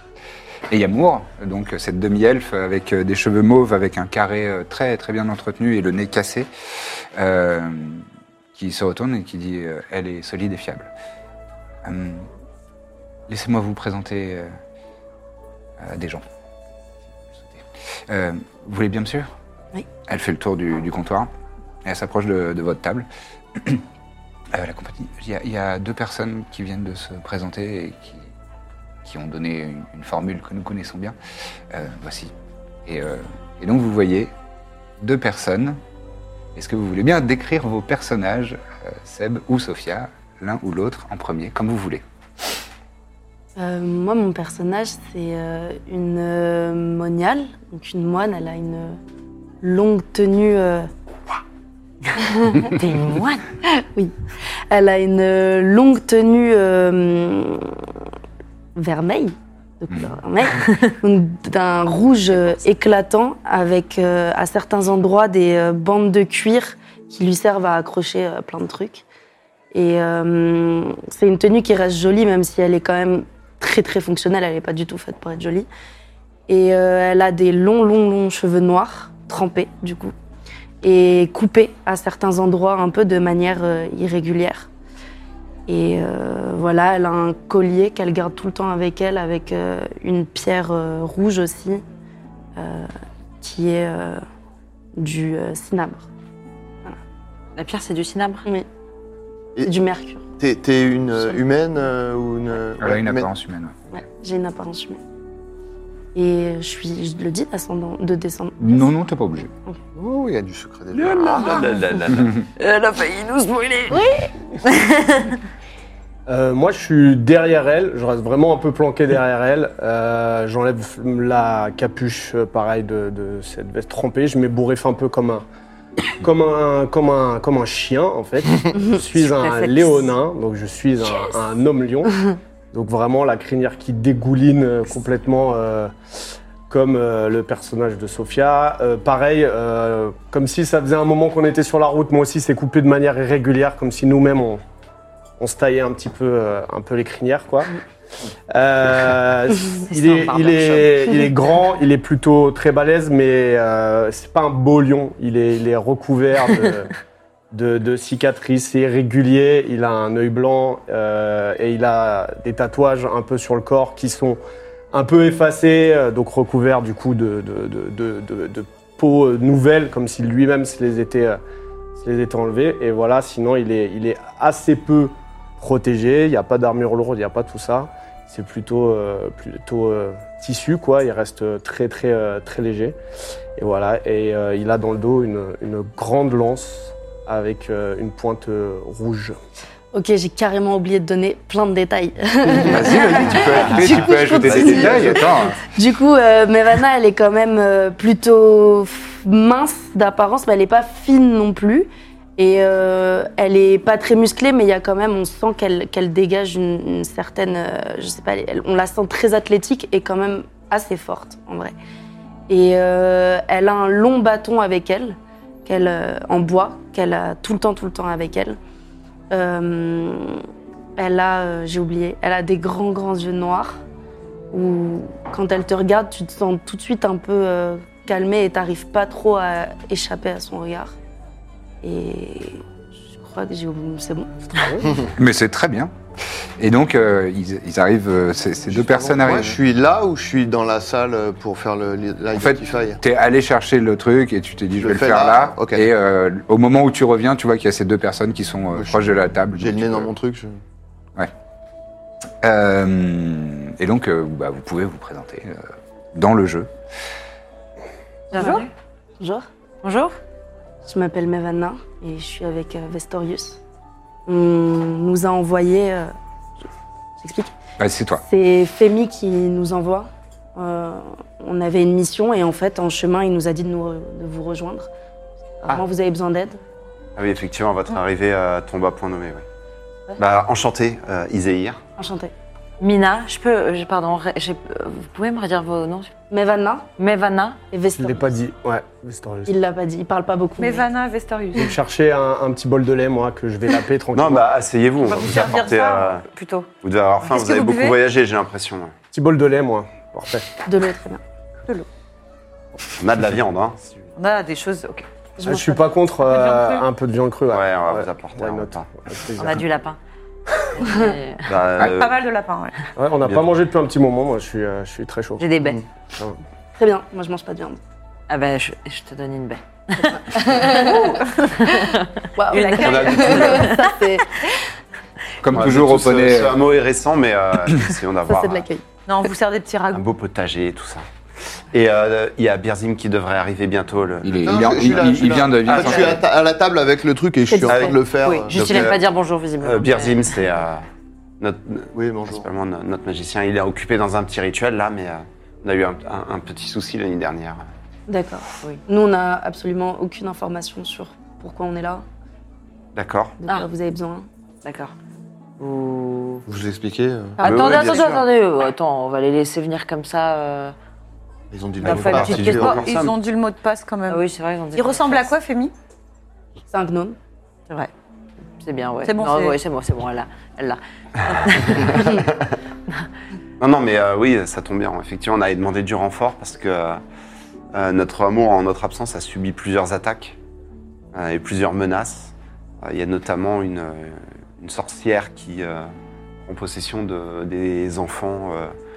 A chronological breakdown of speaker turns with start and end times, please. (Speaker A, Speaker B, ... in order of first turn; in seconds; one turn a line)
Speaker A: 0.7-10.9
Speaker A: 11.8-12.3
Speaker A: 13.3-14.5
Speaker A: 15.8-16.2
Speaker A: 17.3-19.3
Speaker A: 20.1-21.3
Speaker A: 21.8-23.8
Speaker A: 24.5-28.3
Speaker A: 29.0-31.1
Speaker A: 31.7-32.3
Speaker A: 32.9-34.3
Speaker A: 35.0-35.8
Speaker A: 36.5-42.0
Speaker B: 43.5-49.0
Speaker B: 49.6-50.9
Speaker B: 52.2-52.7
Speaker C: 52.6-53.5
Speaker B: 53.7-54.1
Speaker B: 54.7-57.8
Speaker B: 58.7-69.0
Speaker A: 59.9-60.2
Speaker B: 69.7-75.7
Speaker B: 76.5-80.1
Speaker B: 80.8-84.7
Speaker B: 85.7-91.8
Speaker B: 92.6-94.2
Speaker B: 95.0-96.1
Speaker C: 97.5-98.5
Speaker B: 99.6-100.3
Speaker D: 100.4-103.3
Speaker A: 102.8-103.7
Speaker B: 103.9-105.0
Speaker B: 106.1-108.8
Speaker A: 108.6-109.5
Speaker D: 110.0-111.6
Speaker E: 110.9-112.4
Speaker C: 112.6-115.3
Speaker F: 116.3-125.4
Speaker F: 126.2-135.9
Speaker G: 129.2-130.0
Speaker F: 136.7-144.6
Speaker F: 145.4-147.8
Speaker F: 148.5-156.9
Speaker C: 149.8-151.3
Speaker F: 157.5-164.4
Speaker F: 164.9-171.4
Speaker F: 172.0-183.0
Speaker F: 183.6-189.4
Speaker B: 189.9-211.7
Speaker A: 192.5-195.6
Speaker E: 193.4-195.5
Speaker B: 212.5-218.6
Speaker B: 219.3-220.4
Speaker B: 221.0-223.8
Speaker B: 224.5-230.9
Speaker B: 231.8-234.8
Speaker F: 234.6-234.9
Speaker A: 235.2-235.9
Speaker A: 236.6-239.6
Speaker D: 238.7-243.0
Speaker A: 242.3-250.1
Speaker D: 244.8-245.8
Speaker D: 248.8-250.6
Speaker A: 252.4-256.7
Speaker C: 258.3-258.7
Speaker G: 258.3-258.6
Speaker B: 259.2-259.5
Speaker C: 259.8-260.2
Speaker B: 260.8-263.6
Speaker B: 264.2-266.1
Speaker B: 267.2-267.5
Speaker A: 267.8-268.2
Speaker B: 268.2-274.9
Speaker B: 275.6-276.6
Speaker E: 277.1-279.4
Speaker E: 280.2-281.8
Speaker B: 282.0-282.3
Speaker C: 282.8-286.1
Speaker B: 286.3-286.9
Speaker C: 287.0-287.6
Speaker B: 287.7-288.3
Speaker F: 288.0-289.5
Speaker B: 289.5-290.9
Speaker G: 290.6-291.8
Speaker F: 291.5-294.5
Speaker E: 294.1-296.2
Speaker G: 295.0-296.7
Speaker E: 296.8-298.9
Speaker G: 297.2-298.0
Speaker F: 299.1-300.5
Speaker B: 300.6-301.2
Speaker E: 302.9-303.8
Speaker G: 304.1-305.1
Speaker B: 305.4-305.8
Speaker F: 305.4-309.6
Speaker G: 306.2-306.9
Speaker E: 307.5-308.9
Speaker C: 309.3-310.0
Speaker C: 310.8-311.5
Speaker B: 310.8-311.1
Speaker E: 311.4-312.2
Speaker G: 311.8-312.8
Speaker F: 312.9-316.4
Speaker E: 313.2-313.5
Speaker C: 315.4-315.8
Speaker B: 316.8-317.8
Speaker C: 318.3-320.2
Speaker B: 320.3-321.7
Speaker C: 321.6-323.8
Speaker B: 322.3-324.3
Speaker G: 322.5-323.8
Speaker E: 322.8-323.7
Speaker A: 325.4-326.6
Speaker E: 325.5-328.6
Speaker B: 328.3-328.8
Speaker G: 329.1-330.0
Speaker E: 329.9-331.1
Speaker E: 331.7-335.1
Speaker A: 334.2-336.2
Speaker D: 334.4-339.0
Speaker E: 335.6-336.2
Speaker B: 337.5-338.0
Speaker E: 337.6-339.0
Speaker C: 338.1-340.4
Speaker E: 339.6-340.8
Speaker E: 341.4-347.6
Speaker D: 341.9-342.4
Speaker B: 348.1-352.0
Speaker E: 352.9-353.4
Speaker B: 353.4-354.3
Speaker C: 354.6-354.9
Speaker C: 355.6-356.4
Speaker D: 356.5-357.8
Speaker C: 357.4-360.7
Speaker E: 357.4-358.2
Speaker D: 361.5-362.8
Speaker E: 361.8-363.1
Speaker G: 361.8-365.7
Speaker C: 361.9-362.7
Speaker C: 364.1-365.3
Speaker B: 366.7-367.2
Speaker C: 368.6-372.2
Speaker G: 369.0-369.6
Speaker E: 372.0-372.5
Speaker E: 373.6-377.0
Speaker E: 377.7-380.4
Speaker E: 381.1-385.9
Speaker E: 386.4-388.7